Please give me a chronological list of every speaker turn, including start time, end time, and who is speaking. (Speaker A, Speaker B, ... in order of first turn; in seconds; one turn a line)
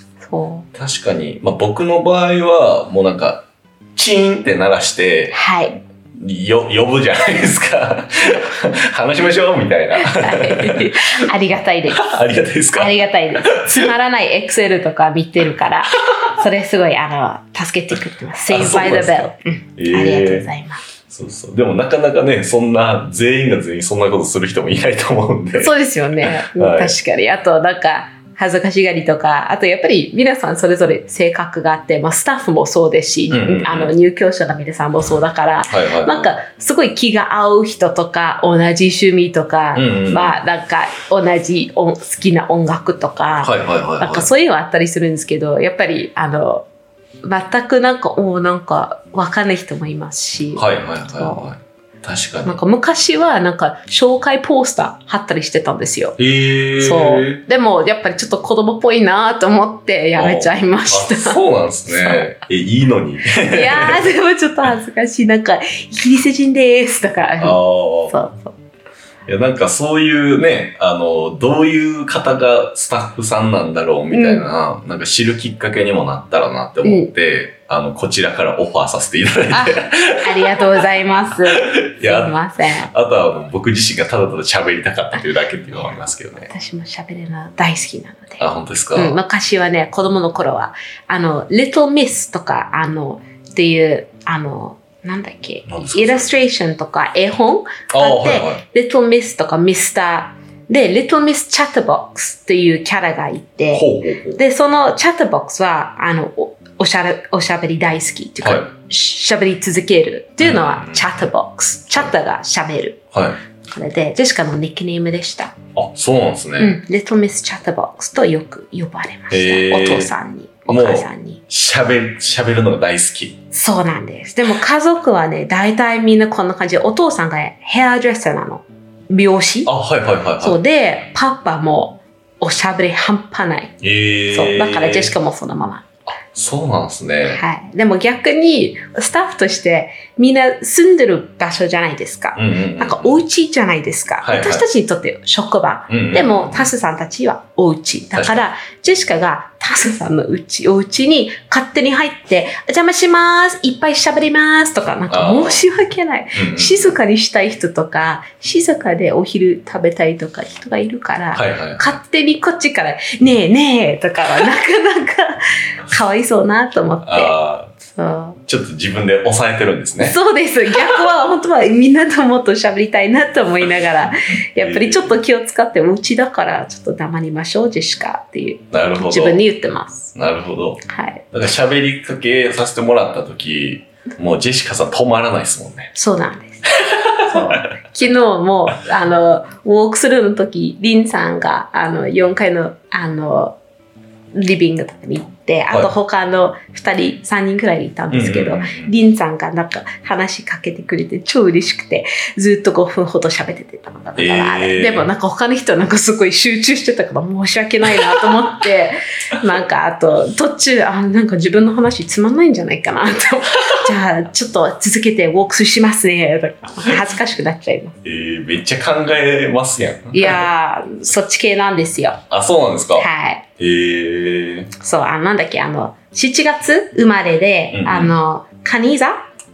Speaker A: 0.2-0.7
Speaker B: 0.7-5.4
Speaker A: 5.3-5.8
Speaker B: 6.1-10.9
Speaker A: 9.9-12.1
Speaker B: 12.0-13.9
Speaker A: 12.7-20.8
Speaker B: 18.5-20.5
Speaker B: 21.1-26.9
Speaker A: 25.5-46.6
Speaker B: 33.3-33.9
Speaker B: 35.7-36.3
Speaker B: 39.7-40.4
Speaker B: 43.4-44.3
Speaker A: 47.2-51.5
Speaker B: 50.5-52.6
Speaker A: 52.4-56.2
Speaker B: 56.2-57.4
Speaker A: 56.8-62.3
Speaker B: 60.1-64.1
Speaker A: 63.4-68.5
Speaker B: 67.4-68.2
Speaker B: 69.2-80.7
Speaker A: 74.1-74.5
Speaker A: 76.8-77.1
Speaker A: 79.5-82.9
Speaker B: 81.6-86.5
Speaker A: 86.5-113.0
Speaker B: 88.4-89.2
Speaker B: 95.7-96.3
Speaker B: 97.9-98.6
Speaker B: 103.7-104.4
Speaker B: 108.4-108.7
Speaker B: 110.4-111.3
Speaker B: 113.1-113.4
Speaker A: 113.7-115.5
Speaker B: 115.7-116.8
Speaker A: 116.6-121.4
Speaker B: 119.3-120.1
Speaker B: 120.7-123.4
Speaker A: 123.5-129.7
Speaker B: 129.7-130.6
Speaker A: 130.4-133.7
Speaker B: 133.8-135.1
Speaker A: 134.3-135.8
Speaker B: 136.1-137.4
Speaker A: 137.2-167.3
Speaker B: 142.3-143.2
Speaker B: 144.2-144.7
Speaker B: 145.9-146.7
Speaker B: 148.1-148.4
Speaker B: 155.1-155.6
Speaker B: 156.3-156.9
Speaker B: 161.3-162.0
Speaker B: 167.0-167.7
Speaker A: 167.8-168.4
Speaker B: 168.5-170.1
Speaker A: 170.0-180.1
Speaker B: 174.6-175.1
Speaker B: 178.7-179.4
Speaker B: 180.1-185.9
Speaker A: 180.9-181.2
Speaker A: 185.9-193.5
Speaker B: 186.8-187.6
Speaker A: 194.3-217.9
Speaker B: 198.1-198.9
Speaker B: 204.2-205.1
Speaker B: 218.0-220.5
Speaker A: 220.1-222.2
Speaker B: 222.3-223.1
Speaker A: 222.9-223.4
Speaker B: 223.6-224.7
Speaker A: 224.8-229.2
Speaker B: 227.7-228.1